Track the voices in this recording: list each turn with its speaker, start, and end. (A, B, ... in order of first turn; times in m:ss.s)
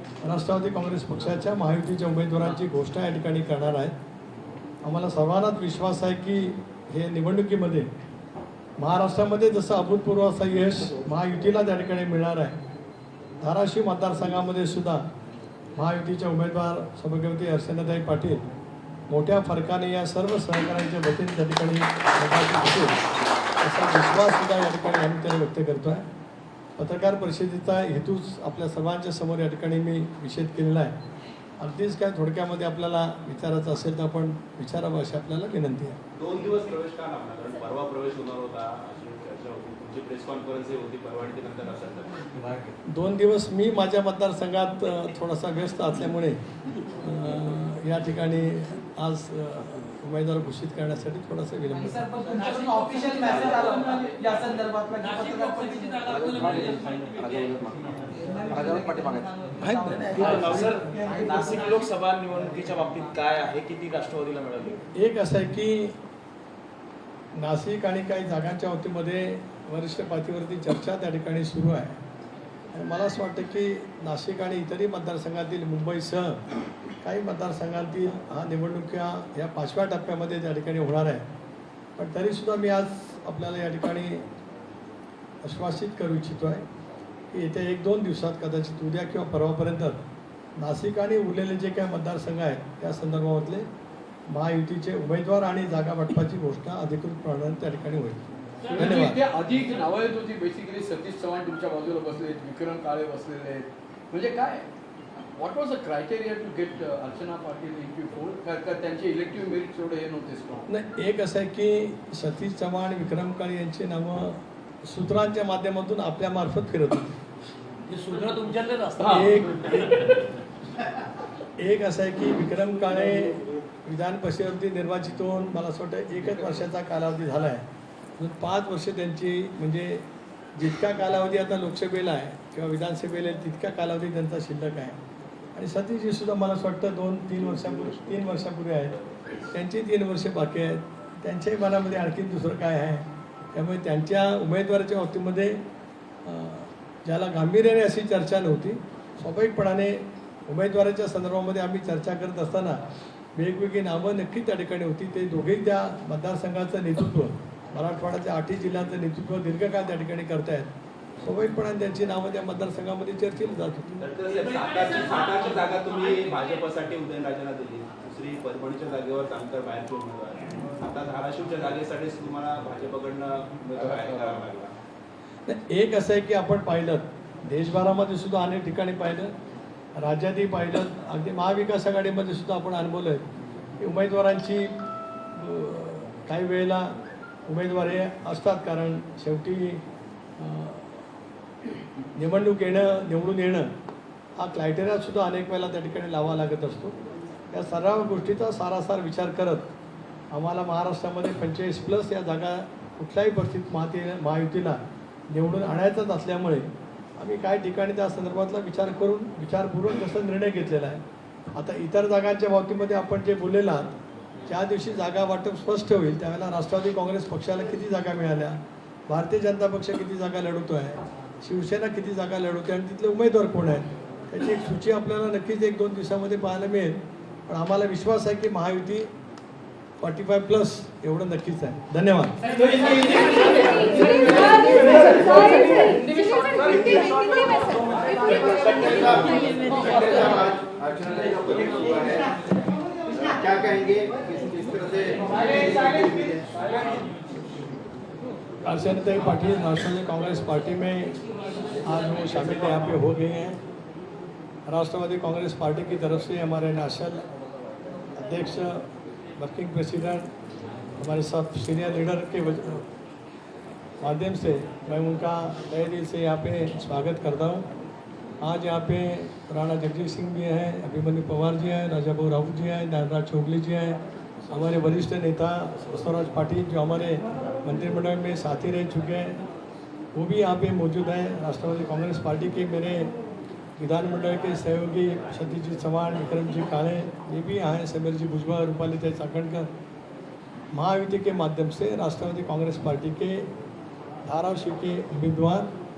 0:00.2-0:04.0 A
0:04.8-0:07.9 A
0:08.8-0:12.6 A
0:13.4-0:15.0 A
0:15.8-0:18.4 A
0:19.1-0:23.0 A
0:23.6-0:26.1 A
0:26.8-0:31.0 A
0:31.6-0:36.0 A
0:36.2-0:42.2 B
0:42.9-0:46.4 A
0:47.0-0:52.1 A
0:52.7-0:54.4 C
0:55.1-0:55.9 C
0:56.2-0:57.6 D
0:58.6-1:00.4 D
1:01.3-1:04.7 E
1:05.0-1:06.0 A
1:07.4-1:12.0 A
1:12.7-1:16.4 A
1:17.0-1:21.2 A
1:22.0-1:24.2 A
1:25.4-1:26.7 A
1:27.3-1:30.0 A
1:30.6-1:33.7 A
1:34.3-1:39.2 A
1:38.7-1:44.7 C
1:45.4-1:50.7 C
1:50.7-1:57.2 A
1:57.9-1:59.4 C
1:59.0-2:00.0 A
2:01.6-2:07.6 A
2:08.2-2:15.0 A
2:15.6-2:19.0 A
2:19.5-2:25.6 A
2:26.2-2:32.8 A
2:33.4-2:40.7 A
2:41.2-2:44.0 A
2:44.0-2:54.7 B
2:55.5-2:59.3 A
3:00.0-3:03.2 A
3:03.8-3:04.7 A
3:05.4-3:06.9 A
3:07.5-3:09.8 A
3:10.4-3:11.0 A
3:12.2-3:13.7 A
3:14.4-3:17.0 A
3:17.5-3:19.7 A
3:20.3-3:24.8 A
3:25.3-3:31.0 A
3:31.6-3:33.9 A
3:34.5-3:49.1 A
3:50.0-3:52.4 A
3:52.8-3:56.6 C
3:56.7-3:57.0 B
3:58.0-4:02.4 B
4:03.1-4:06.5 B
4:08.7-4:11.2 A
4:11.9-4:13.6 A
4:14.7-4:17.2 A
4:18.2-4:18.8 A
4:19.4-4:20.3 A
4:21.0-4:22.9 A
4:24.0-4:27.6 A
4:28.4-4:34.0 A
4:34.5-4:39.4 A
4:40.2-4:43.1 A
4:43.8-4:49.7 A
4:50.7-4:53.5 A
4:54.3-4:55.7 A